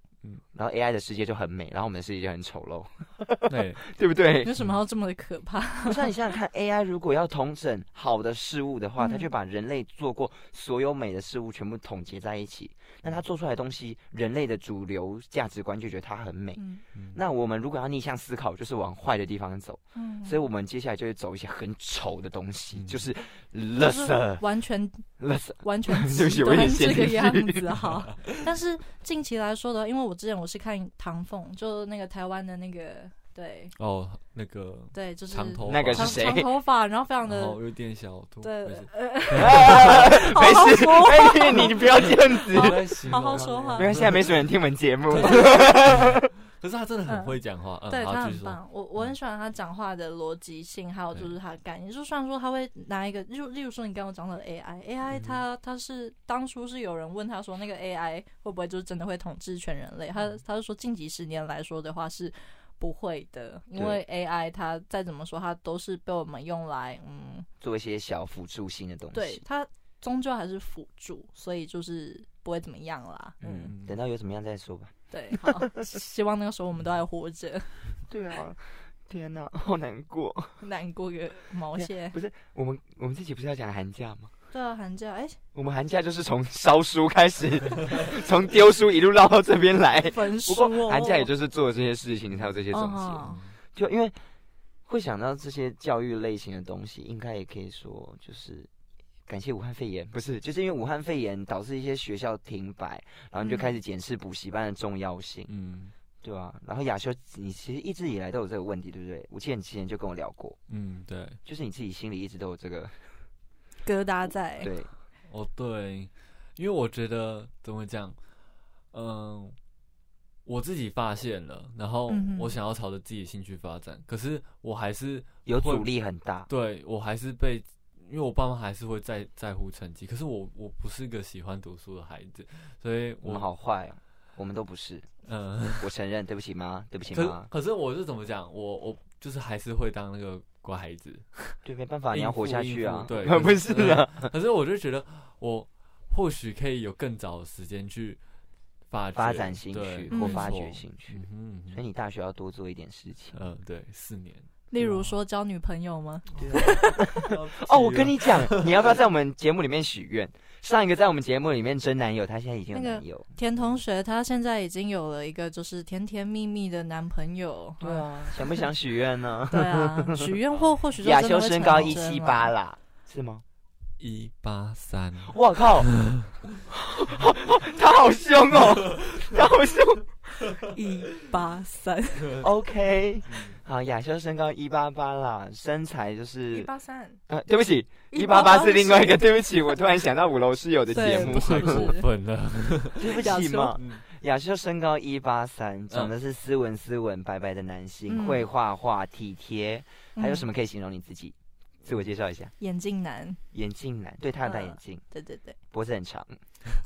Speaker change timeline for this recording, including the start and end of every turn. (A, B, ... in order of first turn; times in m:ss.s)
0:00.5-0:04.5 A
0:03.5-0:03.8 B
0:04.4-0:06.1 C
0:05.8-0:16.6 A
0:09.0-0:09.3 C
0:16.6-0:16.8 C
0:17.1-0:24.4 A
0:19.9-0:20.4 C
0:22.7-0:23.1 B
0:23.8-0:25.0 C
0:25.2-0:27.8 A
0:25.6-0:33.7 C
0:33.8-0:36.4 B
0:34.9-0:37.6 C
0:35.6-0:36.5 A
0:37.2-0:40.6 B
0:38.4-0:44.0 C
0:39.4-0:46.3 A
0:41.5-0:44.4 B
0:45.1-0:48.6 B
0:45.2-0:45.4 C
0:47.1-1:07.5 C
0:55.1-0:55.4 B
1:07.6-1:09.4 A
1:09.1-1:13.7 C
1:13.4-1:15.6 A
1:13.6-1:14.0 B
1:15.1-1:17.7 C
1:18.1-1:20.6 A
1:20.6-1:22.2 C
1:21.7-1:24.3 A
1:24.5-1:25.4 C
1:25.5-1:34.1 A
1:30.0-1:31.3 C
1:32.7-1:33.4 C
1:33.2-1:33.5 B
1:34.9-1:38.7 A
1:39.3-1:45.5 A
1:43.4-1:43.8 C
1:45.5-1:45.9 B
1:46.2-1:50.6 A
1:50.7-1:51.4 B
1:51.4-1:53.0 A
1:53.8-1:54.7 C
1:54.6-1:54.9 A
1:55.2-1:58.2 B
1:58.9-1:59.6 B
2:00.4-2:05.9 B
2:02.1-2:02.5 C
2:05.4-2:06.5 A
2:06.5-2:13.4 B
2:13.2-2:15.1 A
2:15.2-2:15.9 B
2:15.8-2:17.5 A
2:17.1-2:21.6 B
2:21.6-2:24.3 A
2:22.1-2:28.2 B
2:28.9-2:31.8 B
2:29.1-2:33.4 A
2:30.1-2:30.5 C
2:33.3-2:35.2 B
2:34.7-2:37.1 C
2:36.3-2:38.8 B
2:36.4-2:43.3 A
2:42.7-2:48.6 C
2:47.8-2:50.3 A
2:49.5-2:52.5 C
2:51.0-2:53.4 A
2:54.0-2:56.4 B
2:55.3-2:55.9 A
2:56.7-3:00.0 A
2:59.0-2:59.3 B
3:00.6-3:02.4 C
3:02.4-3:06.7 A
3:03.3-3:03.6 B
3:06.5-3:07.2 C
3:07.3-3:11.9 A
3:08.1-3:09.2 C
3:10.9-3:12.1 C
3:10.9-3:13.2 B
3:13.0-3:22.5 A
3:13.1-3:13.8 C
3:13.7-3:14.0 B
3:18.1-3:18.5 C
3:20.2-3:20.4 C
3:22.6-3:23.4 C
3:23.5-3:25.0 A
3:24.4-3:25.6 C
3:25.7-3:26.3 A